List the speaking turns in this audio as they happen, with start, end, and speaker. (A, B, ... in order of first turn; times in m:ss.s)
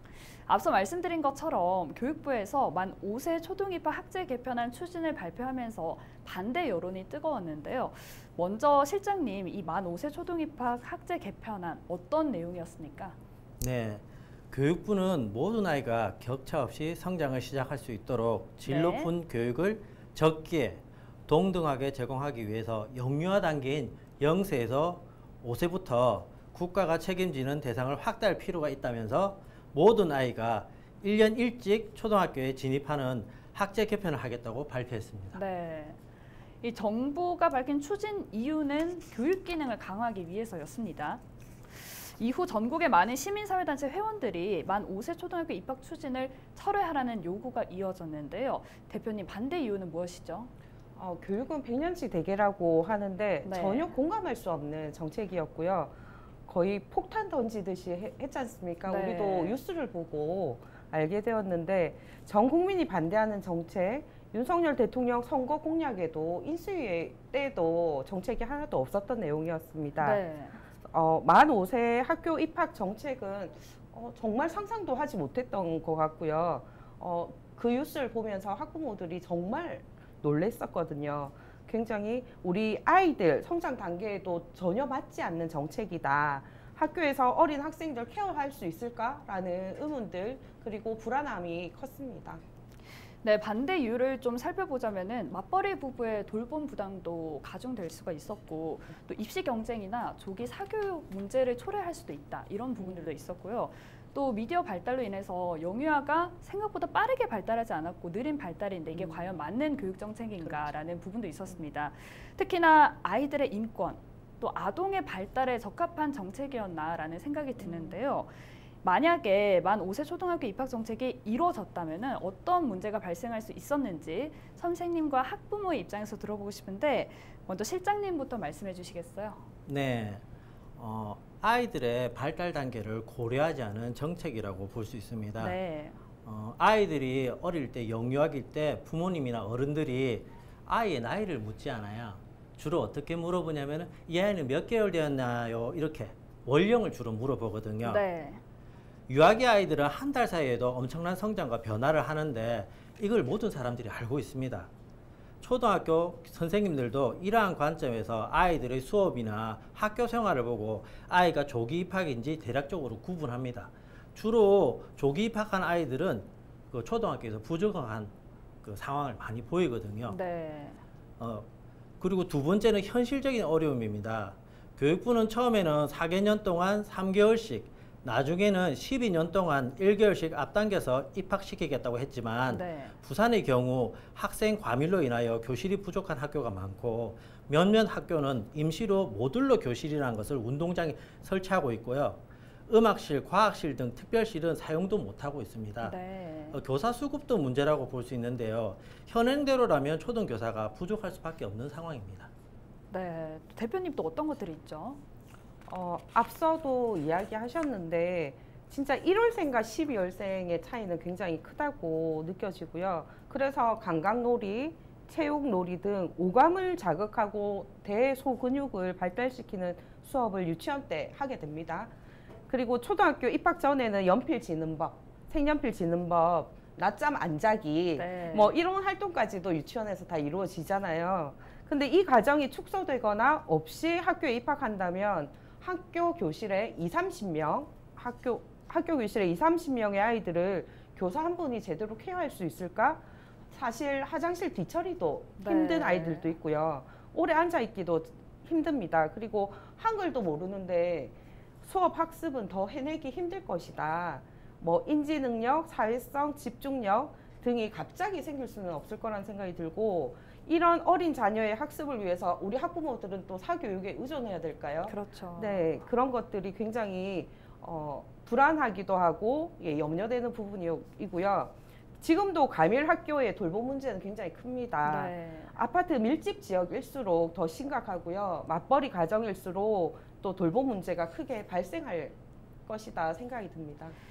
0:00.4-0:13.1 A
0:13.6-0:35.4 B
0:18.6-0:19.1 A
0:35.3-0:36.0 A
0:36.6-0:50.5 A
0:51.0-1:10.2 C
0:53.4-0:53.9 A
0:58.9-0:59.6 A
1:10.0-1:10.6 A
1:10.8-1:32.4 C
1:33.2-2:09.4 A
1:42.8-1:43.1 C
1:48.9-1:49.4 C
1:50.4-1:50.7 C
1:57.6-1:58.0 C
2:09.6-2:10.2 B
2:10.8-2:15.6 B
2:15.4-2:16.0 A
2:16.2-2:28.0 B
2:27.8-2:28.4 A
2:29.1-2:34.7 B
2:35.4-2:50.2 B
2:50.1-2:50.8 A
2:51.2-2:51.5 B
2:52.0-3:16.0 B
3:02.5-3:02.9 A
3:15.8-3:16.6 A
3:16.5-3:22.3 B
3:22.9-3:25.0 A
3:25.7-3:41.9 C
3:42.5-4:44.0 C
3:48.0-3:48.6 A
4:05.4-4:06.3 A
4:24.9-4:25.7 A
4:34.8-4:35.6 A